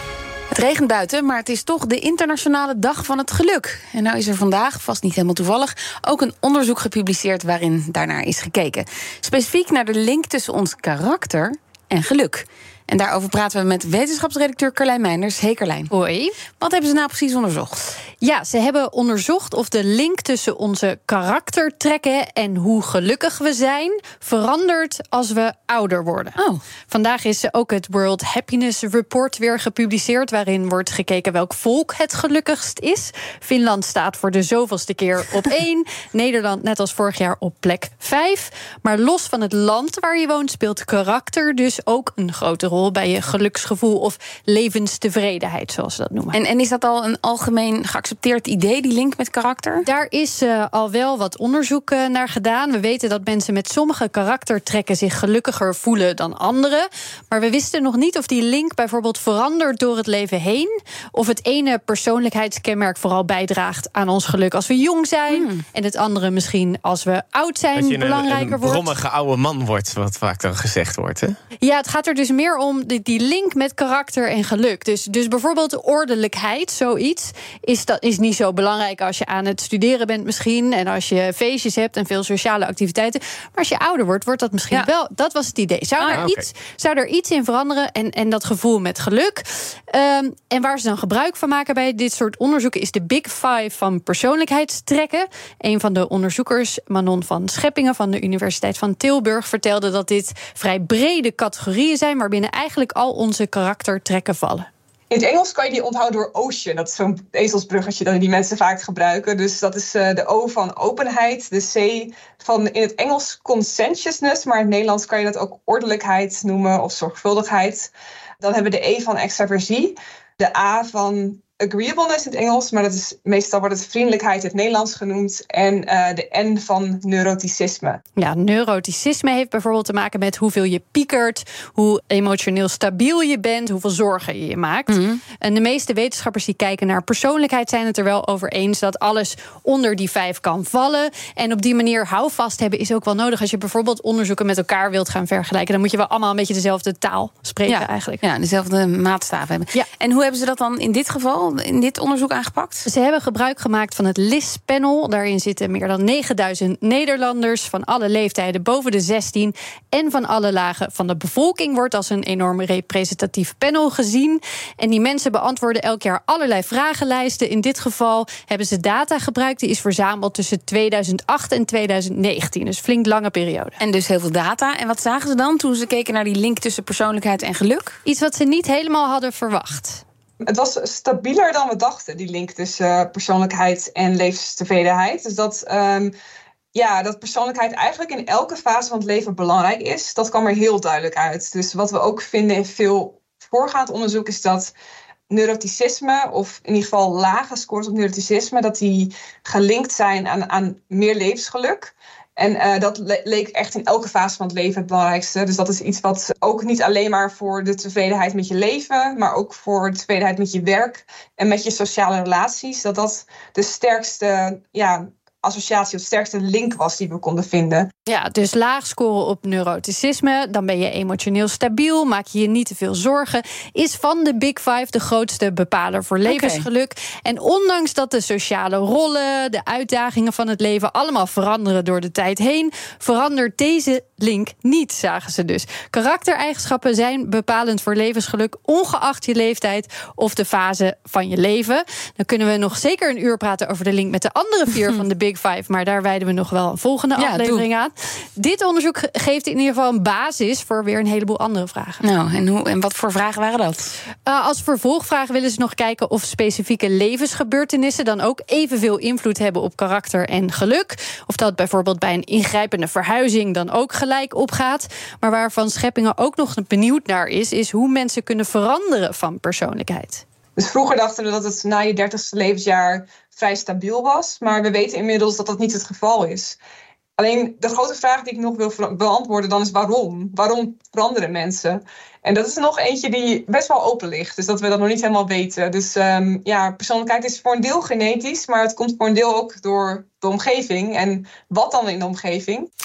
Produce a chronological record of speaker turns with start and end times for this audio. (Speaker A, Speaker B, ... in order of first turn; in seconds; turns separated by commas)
Speaker A: 0.5-15.9, Speaker B: 15.9-16.4, Speaker A: 16.6-17.8, Speaker B: 18.2-26.4, Speaker B: 26.9-46.4, Speaker A: 46.3-49.8, Speaker B: 49.8-68.9, Speaker A: 65.3-65.6, Speaker C: 67.7-71.4, Speaker B: 71.6-104.7, Speaker C: 86.1-86.4, Speaker D: 105.1-128.0, Speaker B: 128.2-148.2, Speaker A: 134.9-135.2, Speaker A: 147.7-152.9, Speaker B: 152.8-173.8, Speaker A: 173.8-178.0, Speaker B: 178.0-180.0, Speaker D: 180.5-186.1, Speaker D: 186.7-194.7, Speaker D: 195.3-217.9, Speaker B: 218.1-252.0, Speaker A: 226.2-226.6, Speaker A: 247.2-247.6, Speaker A: 252.0-253.9, Speaker B: 254.2-270.2, Speaker D: 270.6-276.6, Speaker D: 277.2-292.7